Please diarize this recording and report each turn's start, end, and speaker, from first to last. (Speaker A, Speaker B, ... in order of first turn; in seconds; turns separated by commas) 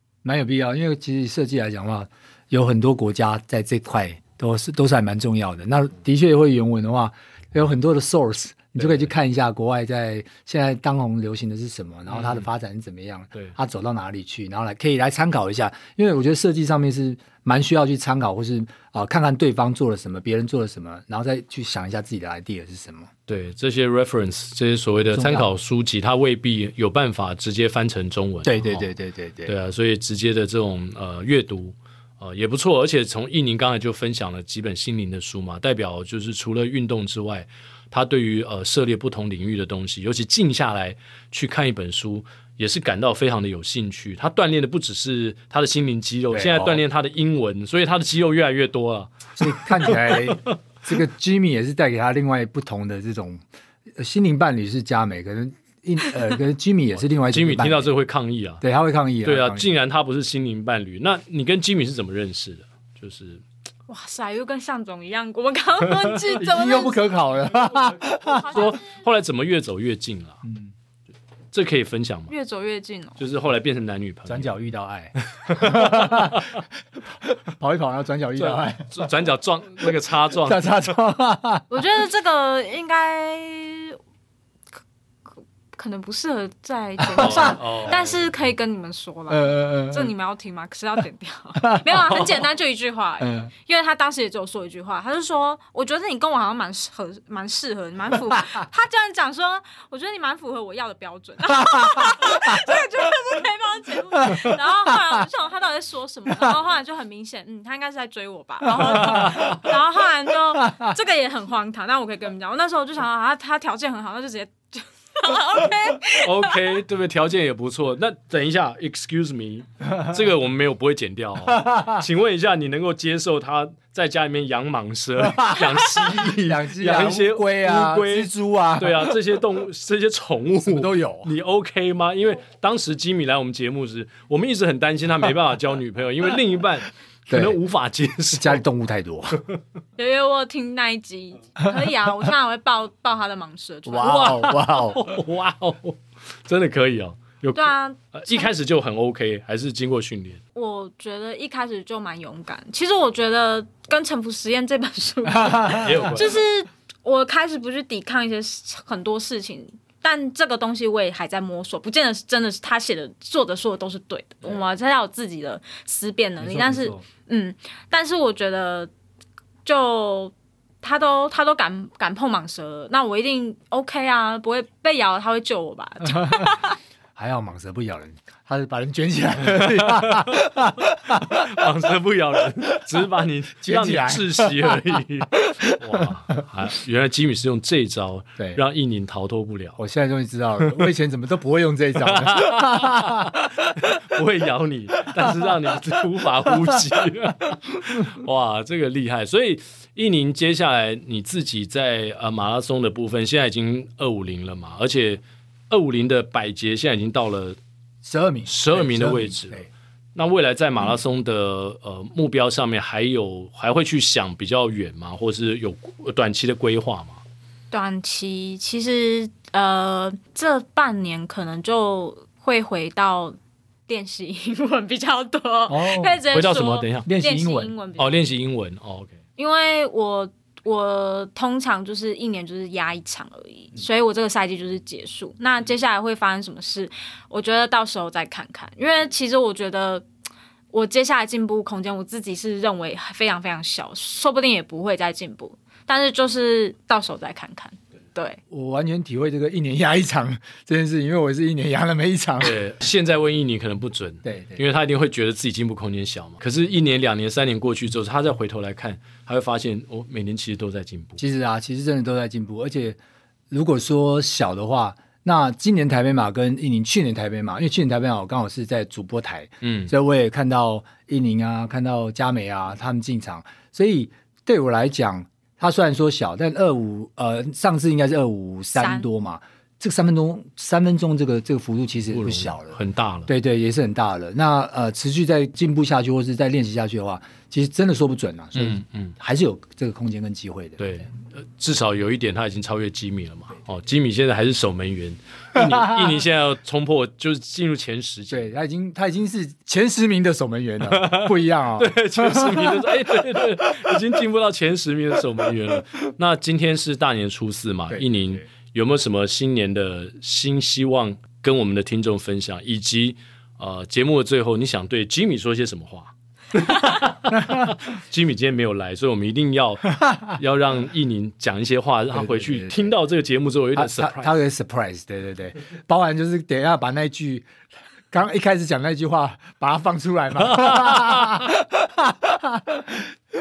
Speaker A: 0.2-23.1, Speaker B: 8.8-9.1, Speaker B: 12.1-12.5, Speaker B: 23.3-28.9, Speaker A: 25.1-25.5, Speaker A: 28.4-29.5, Speaker B: 29.5-50.6, Speaker A: 46.3-46.8, Speaker A: 49.4-53.4, Speaker A: 54.0-57.9, Speaker B: 57.3-58.6, Speaker A: 58.6-59.7, Speaker B: 59.2-63.4, Speaker C: 63.9-69.0, Speaker A: 66.3-68.7, Speaker B: 68.5-70.4, Speaker A: 70.4-70.7, Speaker B: 71.5-72.3, Speaker C: 72.3-73.2, Speaker B: 73.2-74.5, Speaker A: 74.3-79.1, Speaker B: 75.4-76.6, Speaker B: 78.4-80.7, Speaker A: 80.4-81.7, Speaker C: 81.7-84.0, Speaker C: 85.8-116.8, Speaker A: 87.0-87.5, Speaker B: 87.2-88.3, Speaker A: 89.3-90.1, Speaker A: 91.6-92.3, Speaker A: 93.2-93.5, Speaker A: 101.6-102.6, Speaker A: 104.2-104.5, Speaker A: 108.7-109.4, Speaker B: 108.9-109.7, Speaker A: 110.6-110.9, Speaker B: 116.1-138.6, Speaker A: 121.5-122.0, Speaker A: 125.2-129.2, Speaker A: 130.6-131.3, Speaker A: 137.3-137.6, Speaker A: 138.4-139.4, Speaker C: 140.0-144.2, Speaker A: 143.9-145.1, Speaker B: 144.0-150.4, Speaker C: 147.6-148.5, Speaker C: 150.6-168.9, Speaker A: 155.3-156.1, Speaker B: 155.7-156.4, Speaker A: 166.4-167.0, Speaker C: 169.7-176.8, Speaker A: 176.1-176.6, Speaker A: 177.2-181.5, Speaker B: 179.5-180.4, Speaker B: 181.1-189.8, Speaker A: 183.6-184.8, Speaker A: 185.4-186.1, Speaker A: 189.8-193.9, Speaker B: 192.0-207.6, Speaker A: 195.1-195.4, Speaker A: 208.0-209.7, Speaker B: 208.5-217.2, Speaker C: 217.7-223.4, Speaker C: 223.9-228.3, Speaker A: 225.7-226.2, Speaker B: 226.3-227.1, Speaker A: 227.1-227.7, Speaker B: 228.0-229.2, Speaker C: 229.4-240.1, Speaker C: 240.7-248.4, Speaker A: 248.5-252.6, Speaker B: 252.4-261.2, Speaker A: 254.2-254.6, Speaker A: 261.2-263.0, Speaker A: 263.5-290.8, Speaker B: 269.6-269.9, Speaker C: 278.8-279.1, Speaker B: 282.1-283.3, Speaker B: 288.6-289.1, Speaker B: 290.8-298.5, Speaker A: 295.6-296.2, Speaker A: 298.3-303.9, Speaker B: 300.9-324.4, Speaker A: 307.9-308.4, Speaker A: 317.3-317.8, Speaker A: 322.1-322.9, Speaker A: 323.8-327.5, Speaker A: 328.1-333.1, Speaker B: 330.4-331.5